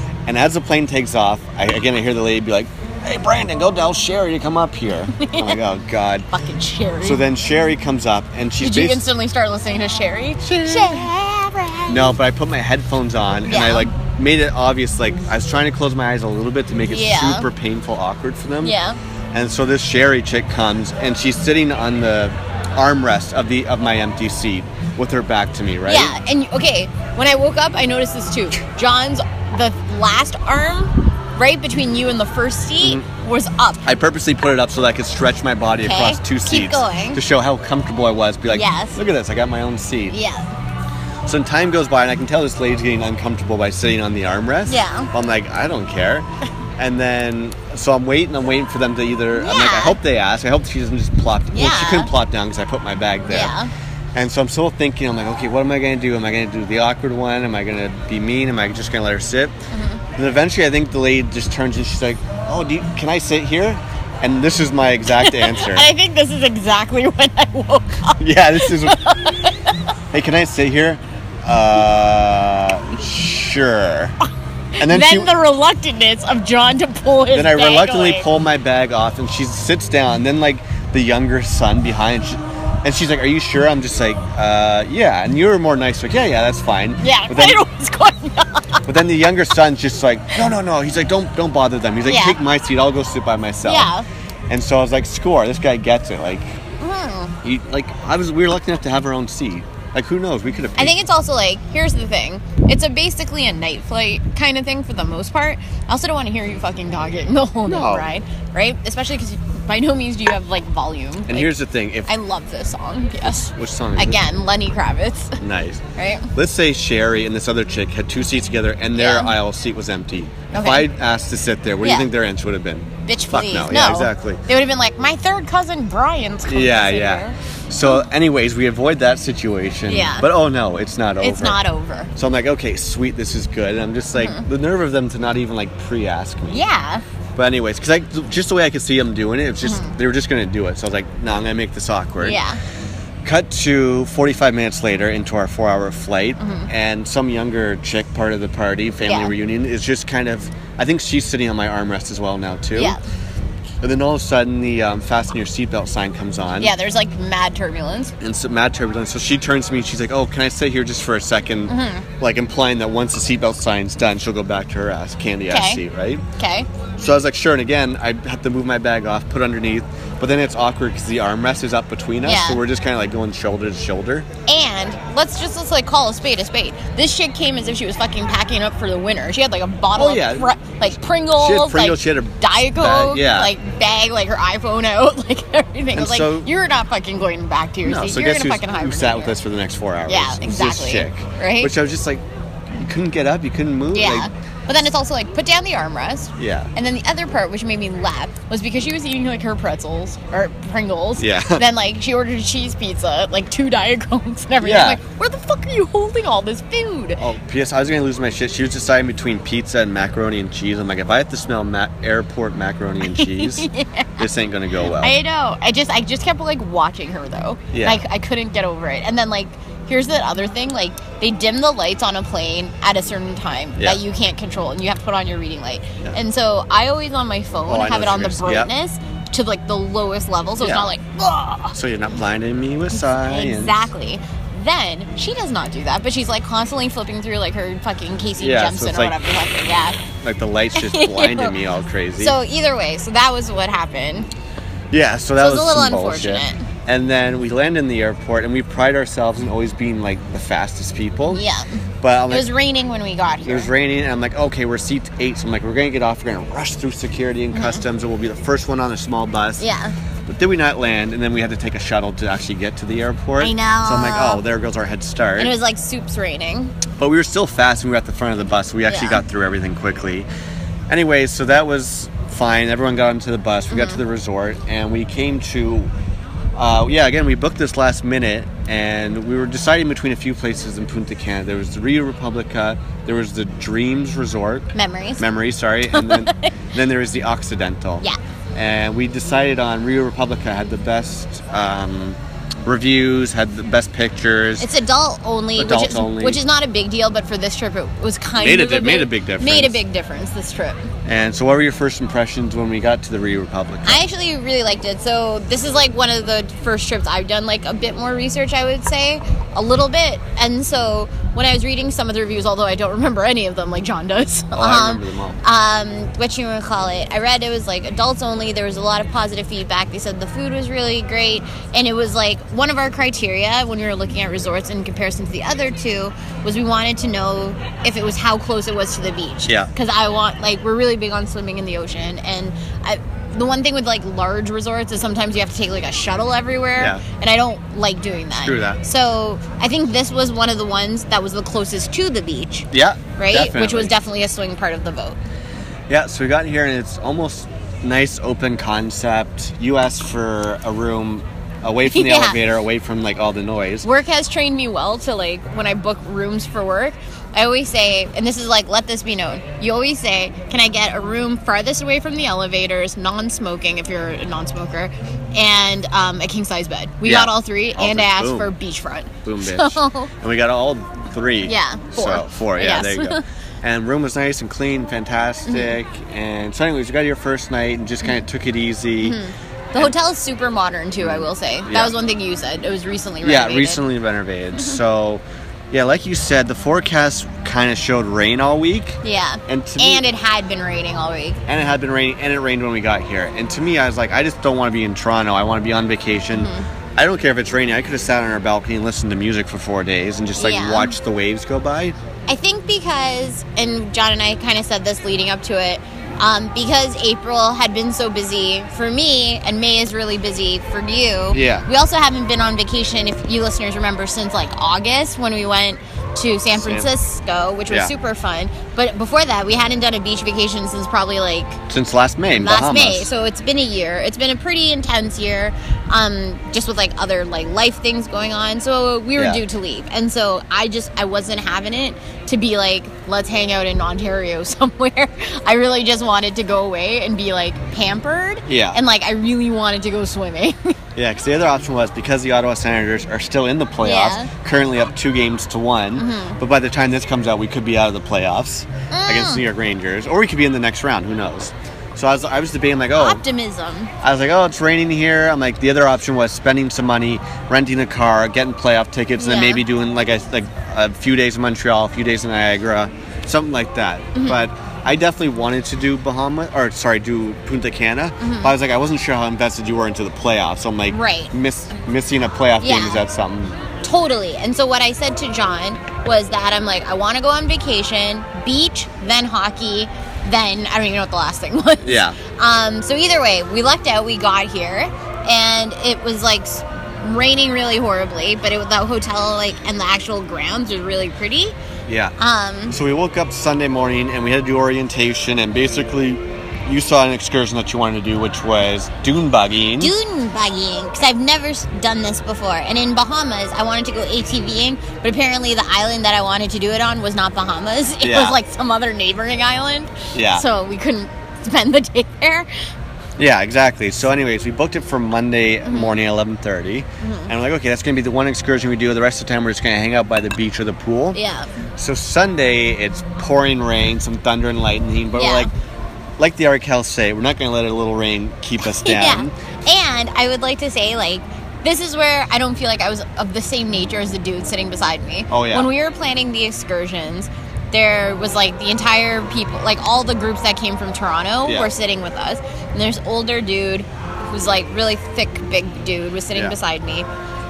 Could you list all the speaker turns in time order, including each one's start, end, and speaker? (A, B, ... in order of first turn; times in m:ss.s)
0:00.2-0:06.3 A
0:05.2-0:05.6 B
0:06.3-0:07.2 B
0:07.0-0:09.0 A
0:08.6-0:12.2 B
0:10.4-0:11.1 A
0:11.9-0:18.8 A
0:13.5-0:13.9 B
0:16.9-0:17.5 B
0:18.6-0:19.0 B
0:19.3-0:26.1 A
0:25.8-0:33.8 B
0:32.8-0:33.0 A
0:33.8-0:40.2 A
0:35.8-0:37.2 B
0:38.5-0:39.0 B
0:40.1-0:40.5 B
0:41.2-0:53.5 A
0:44.7-0:45.1 B
0:49.4-0:50.0 B
0:51.5-0:52.1 B
0:53.3-0:53.7 B
0:54.1-0:59.6 A
0:59.7-1:00.0 B
1:00.2-1:05.9 A
1:05.2-1:09.7 B
1:08.2-1:09.0 A
1:10.1-1:14.2 A
1:14.8-1:15.4 A
1:14.8-1:18.2 B
1:17.3-1:27.6 A
1:27.0-1:28.8 B
1:28.8-1:33.9 A
1:32.0-1:32.4 B
1:33.6-1:34.0 B
1:34.5-1:36.5 A
1:36.8-1:37.3 B
1:37.4-1:41.0 A
1:40.8-1:51.5 B
1:47.7-1:48.1 A
1:51.3-1:52.1 A
1:52.0-1:55.4 B
1:53.2-1:54.2 A
1:55.4-2:04.4 A
1:56.0-1:56.3 B
1:58.9-1:59.4 B
2:00.5-2:00.9 B
2:01.8-2:02.1 B
2:03.0-2:07.4 B
2:06.5-2:11.6 A
2:09.9-2:10.3 B
2:11.2-2:12.1 B
2:12.1-2:16.6 A
2:14.1-2:14.4 B
2:16.5-2:17.0 B
2:17.4-2:22.4 A
2:19.6-2:19.9 B
2:22.2-2:22.6 B
2:23.2-2:33.0 A
2:26.4-2:26.7 B
2:29.0-2:29.3 B
2:32.7-2:33.0 B
2:33.8-2:36.7 A
2:36.6-2:38.1 B
2:38.2-2:46.2 A
2:41.7-2:42.0 B
2:45.5-2:45.8 B
2:46.4-2:46.7 B
2:47.0-2:54.3 A
2:52.2-2:52.6 B
2:54.5-3:09.4 B
2:59.9-3:00.5 A
3:01.4-3:03.5 A
3:05.9-3:06.5 A
3:07.8-3:14.3 A
3:10.1-3:11.7 B
3:13.9-3:27.2 B
3:16.4-3:16.7 A
3:21.2-3:21.6 A
3:24.6-3:25.0 A
3:27.2-3:35.2 A
3:33.0-3:34.3 B
3:35.0-3:51.7 B
3:37.7-3:38.0 A
3:47.6-3:48.7 A
3:50.6-3:50.9 A
3:51.7-3:53.9 A
3:53.0-4:00.0 B
3:58.4-3:59.2 A
4:00.1-4:02.4 A
4:00.8-4:01.5 B
4:02.2-4:04.3 B
4:04.9-4:11.4 A
4:05.4-4:06.6 B
4:11.3-4:13.7 B
4:12.0-4:12.5 A
4:13.4-4:19.6 A
4:17.5-4:17.8 B
4:19.6-4:19.9 B
4:20.2-4:25.5 A
4:23.4-4:24.4 B
4:25.4-4:26.7 B
4:27.0-4:30.3 A
4:28.9-4:29.2 B
4:30.9-4:35.9 A
4:33.7-4:34.0 B
4:36.5-4:54.7 A
4:44.7-4:45.2 B
4:45.9-4:46.5 B
4:54.6-5:00.9 B
4:55.6-4:56.4 A
4:58.4-4:59.8 A
5:01.0-5:04.0 A
5:03.8-5:45.2 B
5:14.5-5:15.4 A
5:36.8-5:37.0 A
5:38.4-5:38.8 A
5:42.7-5:43.9 A
5:45.9-5:53.9 A
5:51.9-5:52.4 B
5:53.8-6:10.1 B
6:07.0-6:08.5 A
6:09.2-6:19.2 A
6:11.4-6:13.2 B
6:15.5-6:15.7 B
6:19.0-6:23.8 B
6:21.0-6:21.9 A
6:23.2-6:30.0 A
6:29.0-6:31.4 B
6:31.5-6:41.9 A
6:36.3-6:36.7 B
6:40.4-6:40.9 B
6:42.3-7:01.6 B
6:51.3-6:51.7 A
6:56.6-6:56.9 A
7:01.7-7:03.1 A
7:02.3-7:20.7 B
7:09.2-7:09.4 A
7:18.5-7:18.8 A
7:21.0-7:33.2 A
7:23.8-7:24.3 B
7:26.0-7:26.4 B
7:28.9-7:29.4 B
7:32.9-7:33.9 B
7:34.0-7:53.6 A
7:39.2-7:39.6 B
7:44.1-7:44.4 B
7:48.2-7:48.5 B
7:50.9-7:51.3 B
7:52.6-7:53.0 B
7:53.8-8:11.6 B
8:01.8-8:02.2 A
8:11.9-8:12.1 A
8:12.2-8:12.8 B
8:12.7-8:19.9 A
8:19.8-8:32.5 B
8:28.0-8:28.4 A
8:30.1-8:30.4 A
8:33.2-8:41.2 A
8:35.6-8:35.9 B
8:37.0-8:37.3 B
8:41.1-8:41.5 B
8:41.8-8:45.5 A
8:45.1-8:45.5 B
8:46.2-8:49.3 A
8:48.6-9:07.1 B
8:55.3-8:55.7 A
9:01.4-9:01.7 A